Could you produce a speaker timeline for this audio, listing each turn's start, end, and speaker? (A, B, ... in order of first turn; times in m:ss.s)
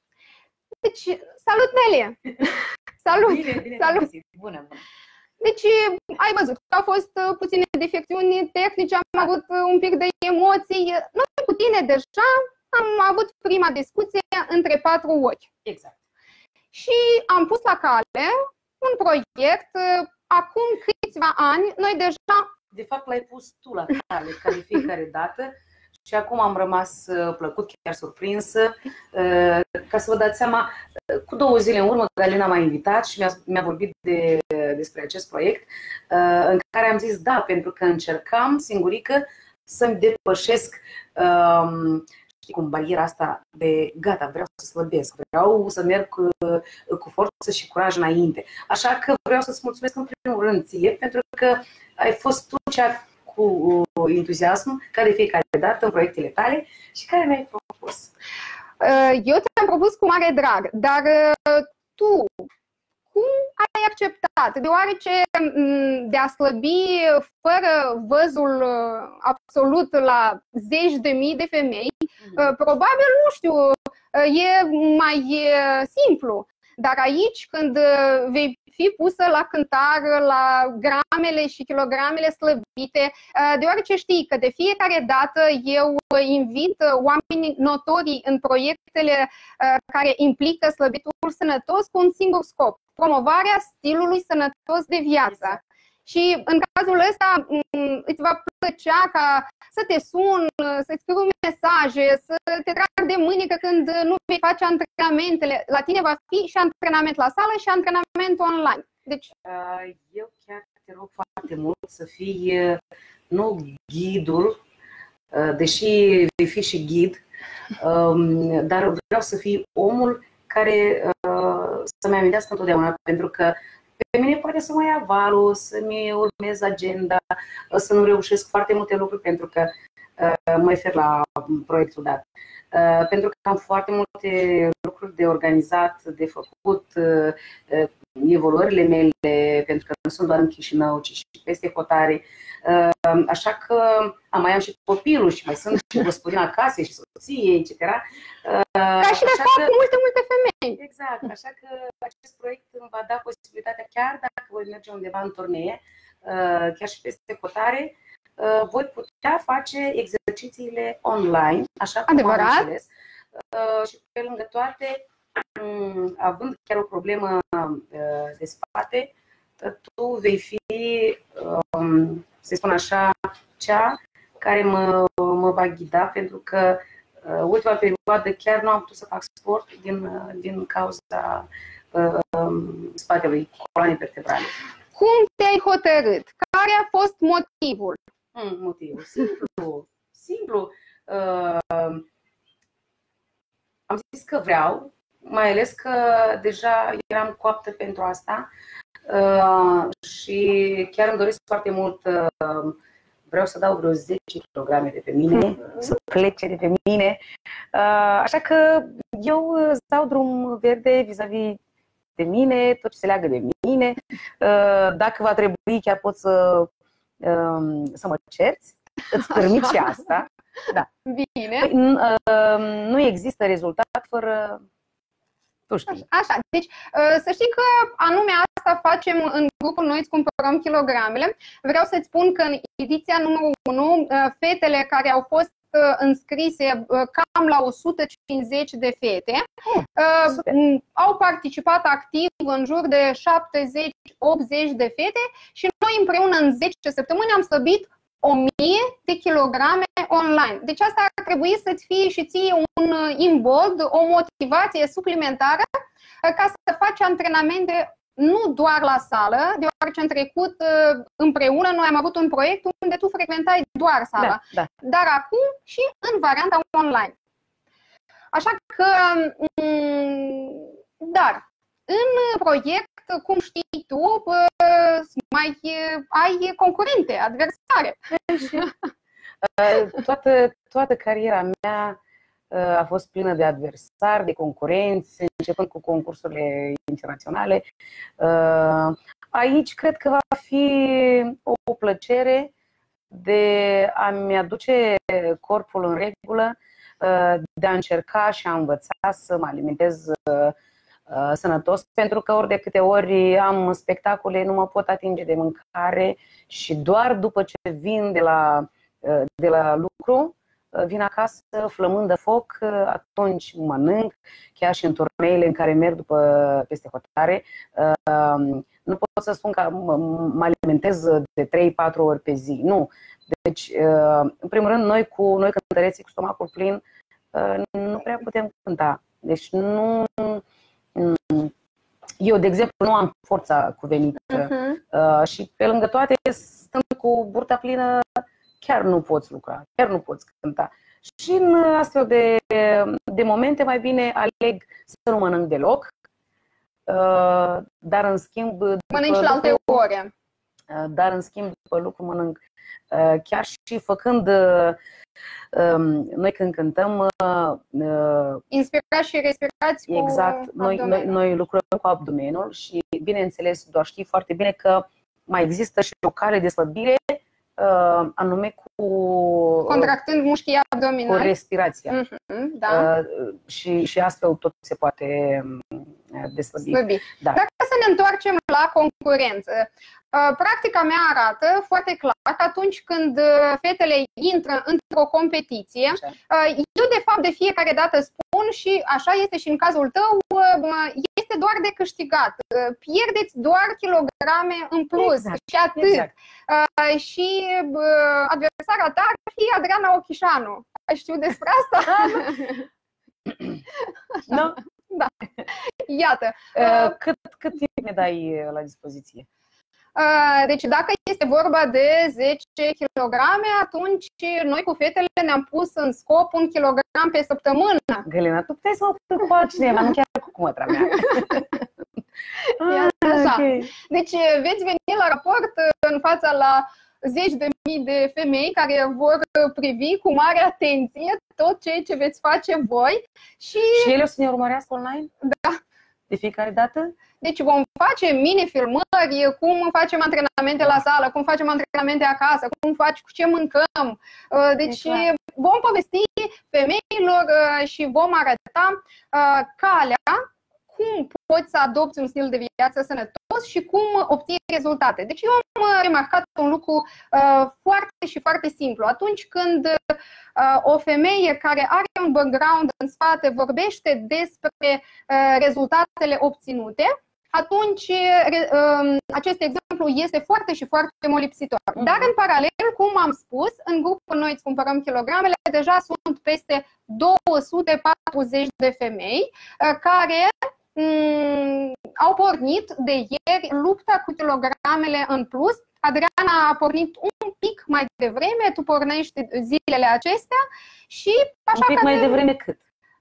0:00.8-0:04.0 A
0:03.1-0:04.8 B
0:05.4-0:15.5 A
0:15.6-0:16.0 B
0:16.7-0:22.5 A
0:22.7-0:25.5 B
0:26.0-0:58.1 B
0:58.8-1:02.5 A
1:03.1-1:49.3 A
1:49.4-1:52.8 B
1:53.3-1:54.6 B
1:55.3-1:57.2 B
1:57.8-2:29.7 B
2:29.0-2:30.8 A
2:30.8-3:04.5 B
2:42.1-2:42.7 A
3:04.9-3:08.0 A
3:08.3-3:12.0 B
3:13.9-3:18.5 B
3:19.0-3:22.8 B
3:23.3-3:27.2 B
3:27.7-3:31.6 B
3:32.2-3:40.9 B
3:39.3-3:39.7 A
3:41.0-3:41.7 A
3:41.6-3:44.6 B
3:45.7-3:46.1 B
3:45.9-4:15.6 A
4:16.2-4:27.1 A
4:24.2-4:24.7 B
4:28.3-4:38.7 A
4:38.3-4:38.7 B
4:39.4-4:42.0 B
4:42.5-4:47.6 B
4:48.2-4:52.5 B
4:53.1-5:00.5 B
5:01.1-5:26.8 B
5:27.3-5:30.4 B
5:30.9-5:31.5 B
5:32.2-5:45.9 B
5:34.4-5:34.8 A
5:46.9-5:49.8 B
5:48.9-5:50.1 A
5:50.7-5:52.4 B
5:52.9-5:54.8 B
5:55.5-5:58.4 B
5:58.5-6:01.2 A
5:59.9-6:09.9 B
6:09.6-6:11.3 A
6:11.0-6:12.0 B
6:11.9-6:12.9 A
6:12.7-6:17.4 B
6:16.7-6:42.6 A
6:35.0-6:36.1 B
6:41.8-6:42.3 B
6:44.2-6:46.9 A
6:44.3-6:44.6 B
6:46.5-6:49.3 B
6:50.0-6:58.1 A
6:58.0-7:01.6 B
7:00.9-7:01.3 A
7:02.5-7:13.9 A
7:02.6-7:03.7 B
7:13.7-7:15.1 B
7:15.2-7:15.6 A
7:16.1-7:16.9 B
7:17.2-8:12.2 A
7:24.7-7:25.1 B
8:11.6-8:12.6 B